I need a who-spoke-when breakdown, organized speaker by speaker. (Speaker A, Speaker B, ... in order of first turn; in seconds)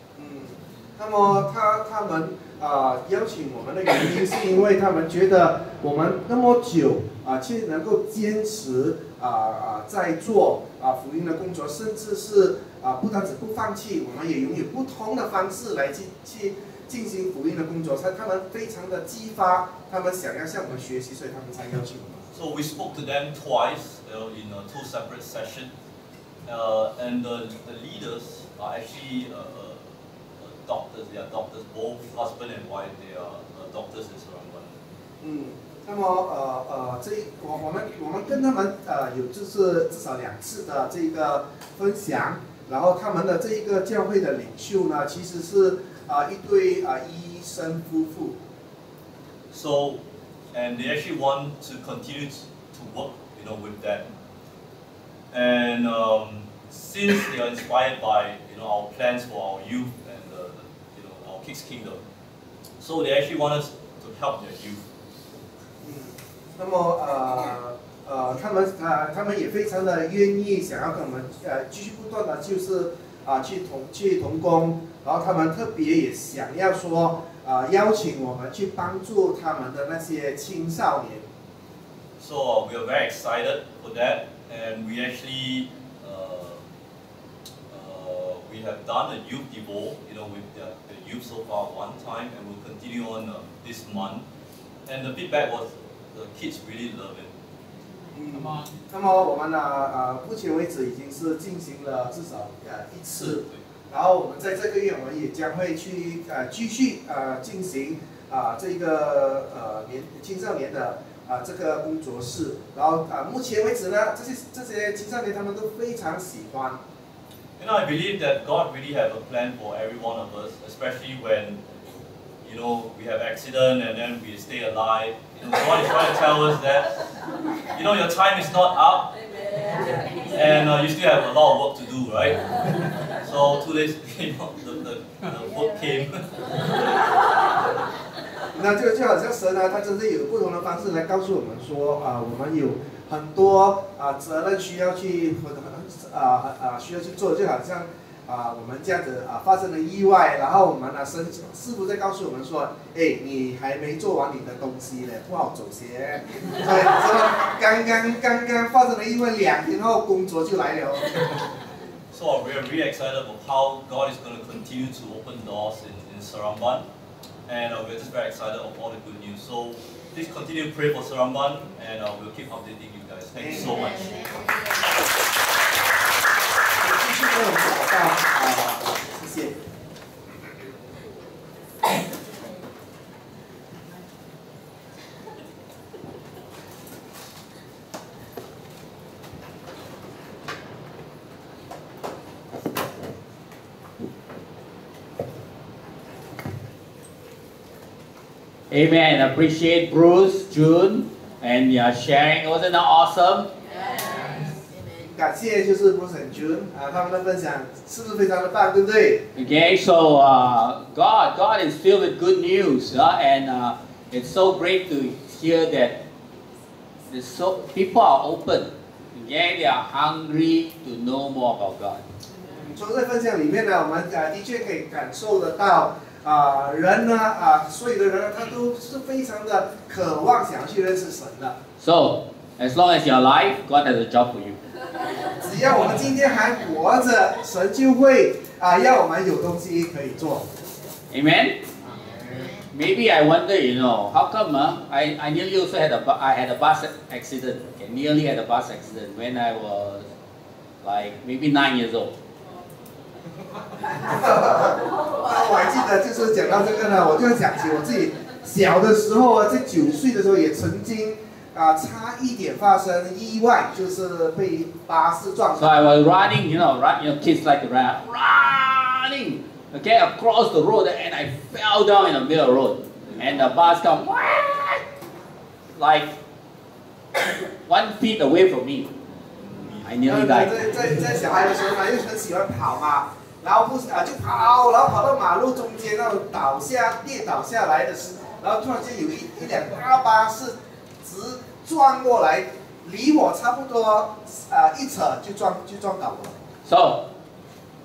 Speaker A: 0.1-22.2, 35.2-48.4, 65.8-81.2, 98.1-116.8, 138.5-161.4, 173.4-174.0, 176.8-179.6, 205.0-209.3, 222.4-231.6, 235.3-240.5, 241.8-242.5, 253.9-265.8, 280.1-296.4
Speaker B: 22.3-25.7, 26.4-34.8, 49.5-50.0, 50.5-54.1, 55.3-62.0, 62.8-64.8, 82.2-86.6, 87.7-94.2, 94.8-97.3, 103.3-103.6, 117.6-121.6, 122.4-127.0, 127.7-137.3, 162.1-166.8, 167.5-174.4, 279.5-279.8
Speaker C: 198.7-203.5, 209.3-216.0, 217.1-222.0, 231.8-234.6, 241.1-241.6, 242.7-250.1, 250.8-252.1, 265.6-274.8, 275.7-276.1, 277.6-278.9, 279.8-280.8, 296.6-297.1